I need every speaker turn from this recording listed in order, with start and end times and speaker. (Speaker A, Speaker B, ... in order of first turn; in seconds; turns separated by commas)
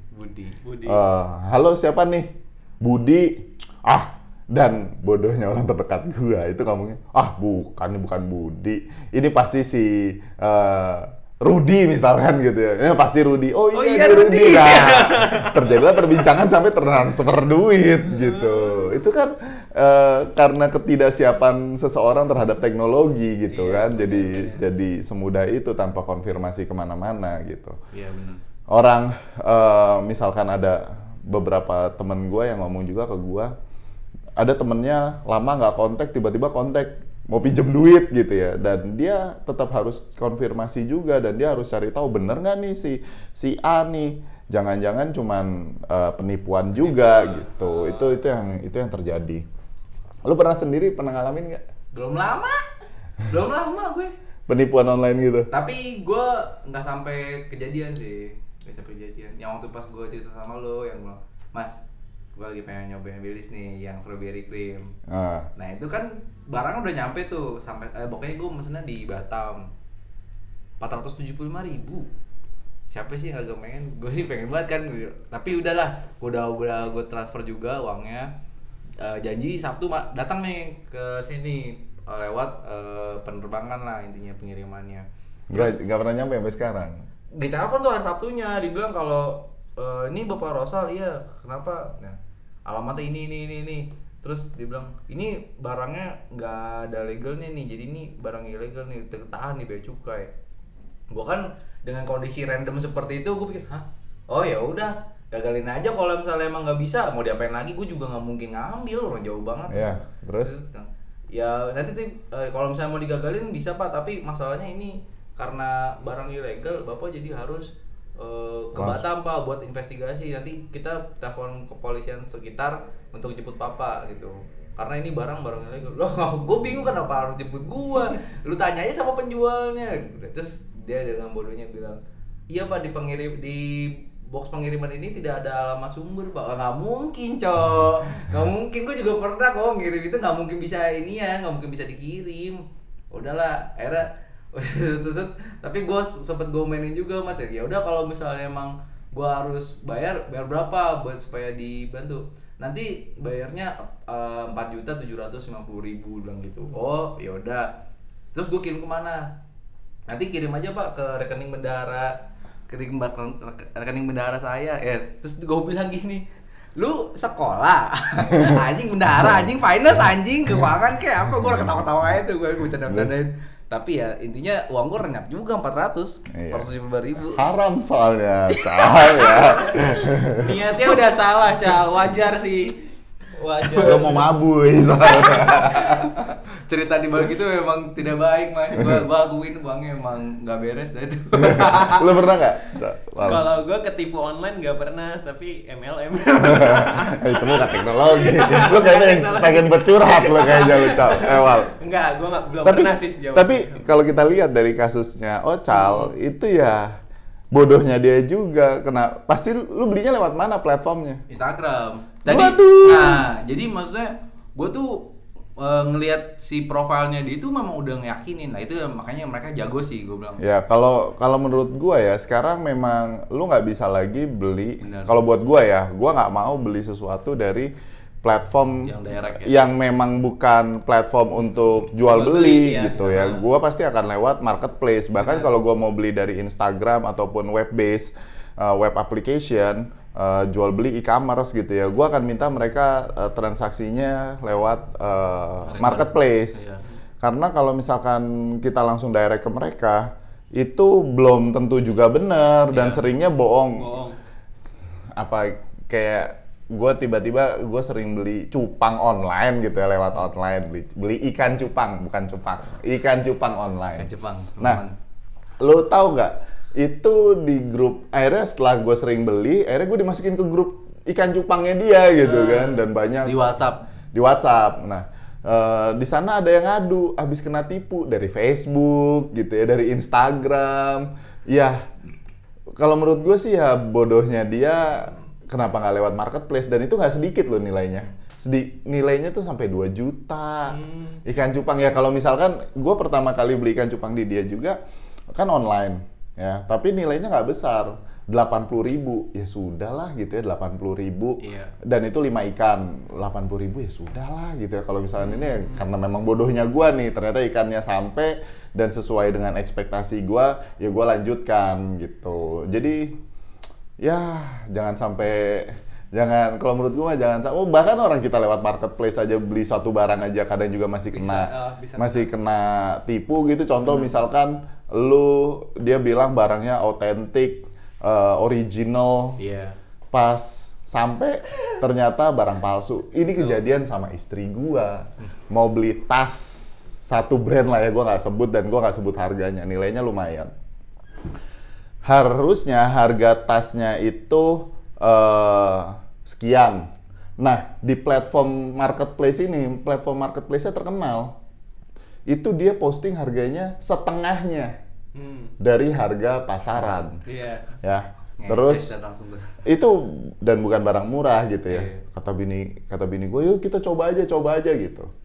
Speaker A: 0.1-0.6, Speaker B: 0.6-1.0, Speaker C: 0.9-27.8, Speaker B: 13.7-16.3, Speaker B: 18.2-18.9, Speaker B: 23.5-24.6, Speaker A: 27.9-28.4, Speaker C: 28.7-33.5, Speaker C: 34.4-49.5, Speaker B: 47.2-48.2, Speaker C: 50.2-51.6, Speaker A: 51.9-52.6, Speaker A: 53.2-54.1, Speaker C: 54.5-55.5, Speaker A: 55.5-61.7, Speaker A: 62.4-64.9, Speaker C: 65.1-65.5, Speaker A: 65.6-69.6, Speaker A: 70.8-72.1, Speaker A: 72.9-78.3, Speaker A: 79.0-85.8, Speaker C: 85.5-87.0, Speaker A: 87.4-100.3, Speaker A: 101.1-132.0, Speaker C: 109.7-110.6, Speaker C: 118.8-119.0, Speaker A: 132.5-157.7, Speaker A: 158.3-159.2, Speaker A: 160.1-162.1, Speaker A: 162.7-166.2, Speaker A: 166.8-177.4, Speaker C: 168.3-169.5, Speaker C: 172.9-173.1, Speaker C: 176.3-176.7, Speaker C: 177.3-180.6, Speaker A: 178.9-179.4, Speaker B: 180.4-182.8, Speaker B: 183.4-184.2, Speaker A: 183.6-183.9, Speaker C: 183.8-186.1, Speaker A: 185.0-192.1, Speaker C: 188.8-189.1, Speaker C: 191.4-193.5, Speaker B: 193.2-203.9, Speaker C: 196.4-201.7, Speaker C: 202.6-206.9, Speaker B: 205.8-206.1, Speaker C: 207.5-211.2, Speaker A: 211.3-220.4, Speaker C: 212.3-213.2, Speaker C: 220.4-227.7, Speaker A: 224.8-225.1, Speaker C: 228.2-246.6, Speaker A: 228.8-229.6, Speaker B: 232.1-233.3, Speaker A: 233.0-233.4, Speaker A: 245.6-246.8, Speaker C: 247.2-253.9, Speaker A: 252.7-253.1, Speaker B: 253.8-254.2, Speaker C: 255.2-264.8, Speaker A: 264.0-264.9, Speaker C: 265.6-273.4, Speaker B: 272.2-272.8, Speaker A: 273.2-273.8, Speaker C: 274.1-281.8, Speaker C: 282.8-294.8, Speaker B: 290.7-291.2, Speaker C: 295.3-313.2, Speaker A: 301.4-301.7, Speaker C: 314.0-329.4, Speaker B: 321.1-322.3, Speaker A: 329.4-329.8, Speaker C: 330.1-340.5, Speaker B: 333.3-333.6, Speaker C: 342.1-351.4, Speaker C: 352.3-354.8, Speaker B: 355.1-355.6, Speaker C: 355.6-357.2, Speaker B: 357.3-357.7, Speaker C: 357.8-358.9, Speaker A: 358.4-359.6, Speaker C: 359.6-365.1, Speaker A: 361.7-362.0